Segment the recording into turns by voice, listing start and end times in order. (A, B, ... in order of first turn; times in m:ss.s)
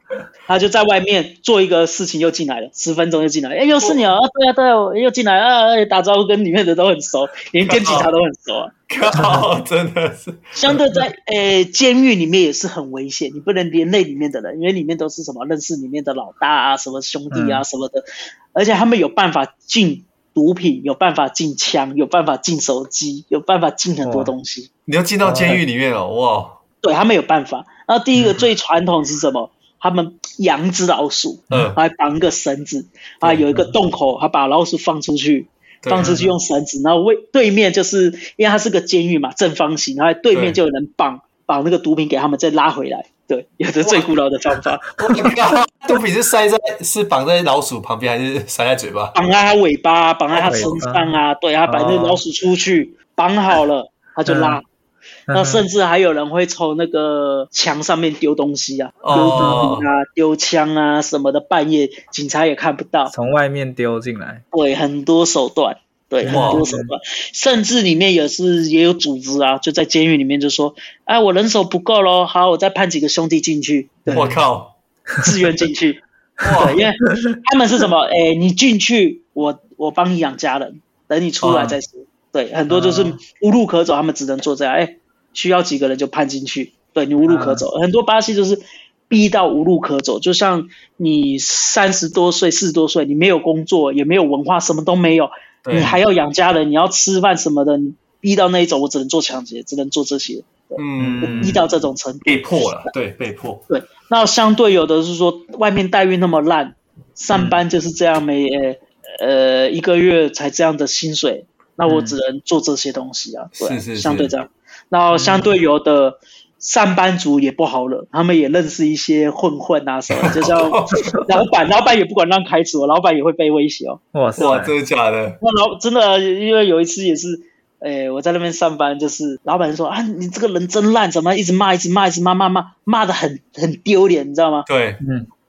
0:00.5-0:08.7 A
0:07.6-0:08.1 B
0:08.9-0:10.5 B
0:09.1-0:09.5 C
0:10.5-0:24.7 A
0:17.3-0:17.6 C
0:24.0-0:24.3 C
0:24.9-0:26.6 B
0:25.2-0:25.6 C
0:26.8-0:44.8 A
0:28.1-0:28.4 C
0:31.5-0:31.7 C
0:31.5-0:31.8 B
0:35.8-0:36.2 B
0:36.0-0:36.3 C
0:43.8-0:44.1 B
0:44.9-0:49.1 B
0:49.1-0:54.6 A
0:50.3-0:50.8 B
0:50.4-0:52.2 C
0:54.3-0:54.6 C
0:55.3-0:55.6 C
0:55.3-1:03.1 A
0:59.0-0:59.9 B
0:59.3-0:59.7 C
1:03.1-1:04.4 C
1:04.5-1:14.2 A
1:06.2-1:06.9 C
1:06.2-1:06.6 B
1:14.1-1:14.7 B
1:15.2-1:16.0 A
1:16.4-1:16.8 B
1:16.5-1:42.4 A
1:21.4-1:21.8 B
1:22.7-1:23.2 C
1:27.3-1:27.6 C
1:35.6-1:35.9 B
1:40.8-1:41.6 B
1:41.0-1:41.6 C
1:42.2-1:43.6 B
1:43.7-2:04.6 A
1:47.3-1:47.6 C
1:51.9-1:52.2 C
1:53.6-1:54.3 B
1:55.1-1:55.5 C
2:00.1-2:01.2 B
2:04.1-2:04.7 C
2:04.4-2:05.4 B
2:05.4-2:14.7 A
2:14.7-2:15.0 B
2:15.0-2:15.3 C